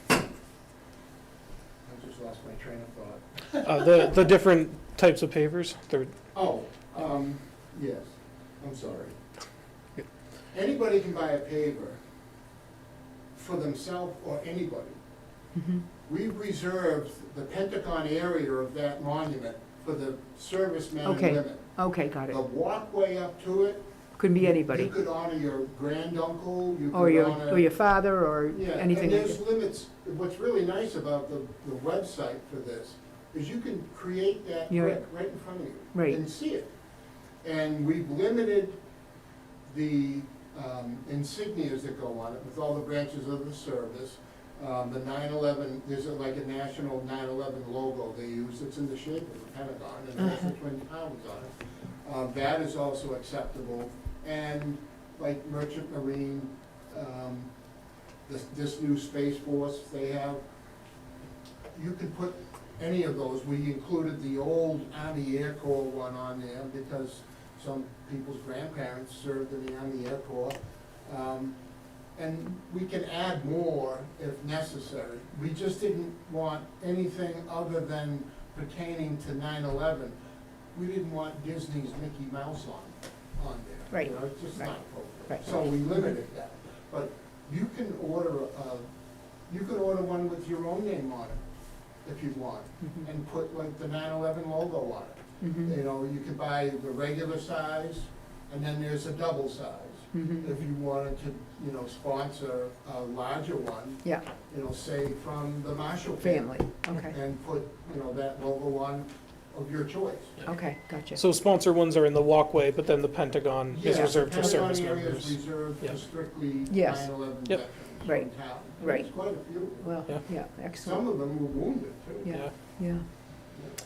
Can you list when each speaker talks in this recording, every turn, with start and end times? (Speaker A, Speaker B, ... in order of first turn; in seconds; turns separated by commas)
Speaker A: 1.8-3.6, Speaker B: 3.6-6.1, Speaker A: 6.3-9.2, Speaker A: 10.5-12.0, Speaker A: 13.3-15.0, Speaker C: 15.5-15.8, Speaker A: 16.1-21.7, Speaker C: 21.0-22.4, Speaker A: 22.3-27.7, Speaker C: 24.2-24.9, Speaker C: 26.9-29.4, Speaker A: 28.5-36.7, Speaker C: 34.7-35.0, Speaker C: 35.9-36.2, Speaker A: 37.4-38.8, Speaker A: 39.7-57.5, Speaker A: 58.2-60.4, Speaker A: 61.7-71.6, Speaker A: 72.2-80.2, Speaker A: 80.7-88.9, Speaker C: 83.9-84.7, Speaker A: 89.5-91.4, Speaker A: 92.0-110.4, Speaker C: 95.4-95.7, Speaker C: 100.1-100.5, Speaker C: 106.2-107.1, Speaker C: 110.4-111.2, Speaker B: 111.1-115.9, Speaker A: 113.7-120.2, Speaker C: 116.7-117.2, Speaker C: 118.0-121.0, Speaker A: 120.8-122.4, Speaker C: 122.2-123.0